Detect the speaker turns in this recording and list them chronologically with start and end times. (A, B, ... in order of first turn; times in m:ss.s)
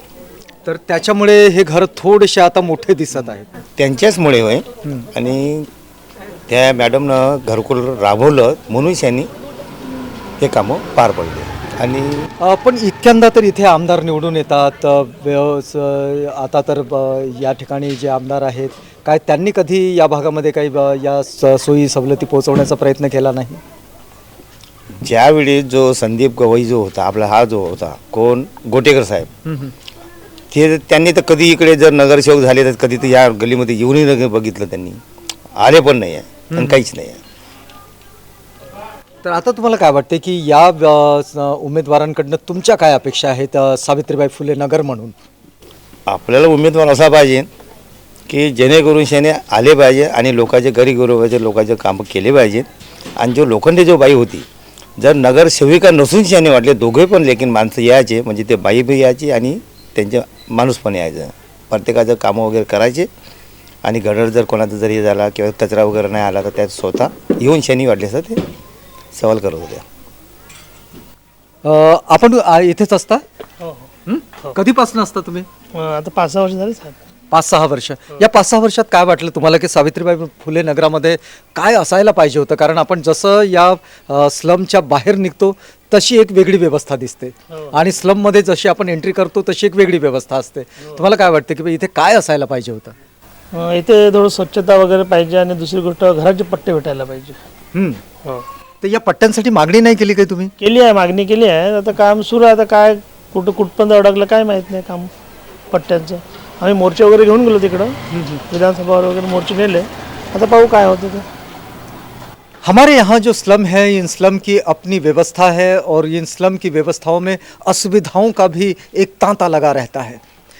0:00.6-0:03.5 A
0:03.8-0:05.7 B
0:06.5-0:09.3 B
0:10.4-0:12.3 B
0:12.4-0:23.6 A
0:25.0-0:29.3 B
0:29.4-0:29.7 A
0:30.5-0:35.0 B
0:35.6-0:37.2 B
0:36.5-0:36.8 A
0:39.2-0:45.1 A
0:46.1-0:47.5 B
0:48.3-0:52.7 B
0:53.2-0:54.4 B
0:55.0-1:03.1 B
1:03.8-1:08.4 B
1:09.1-1:09.8 B
1:11.6-1:13.2 A
1:13.6-1:13.9 C
1:14.0-1:15.5 A
1:15.7-1:17.0 C
1:17.3-1:32.9 A
1:33.5-1:37.4 C
1:37.7-1:38.0 A
1:38.8-1:40.5 A
1:40.6-1:45.1 C
1:45.7-1:51.3 C
1:48.1-1:48.4 A
1:52.6-2:00.2 A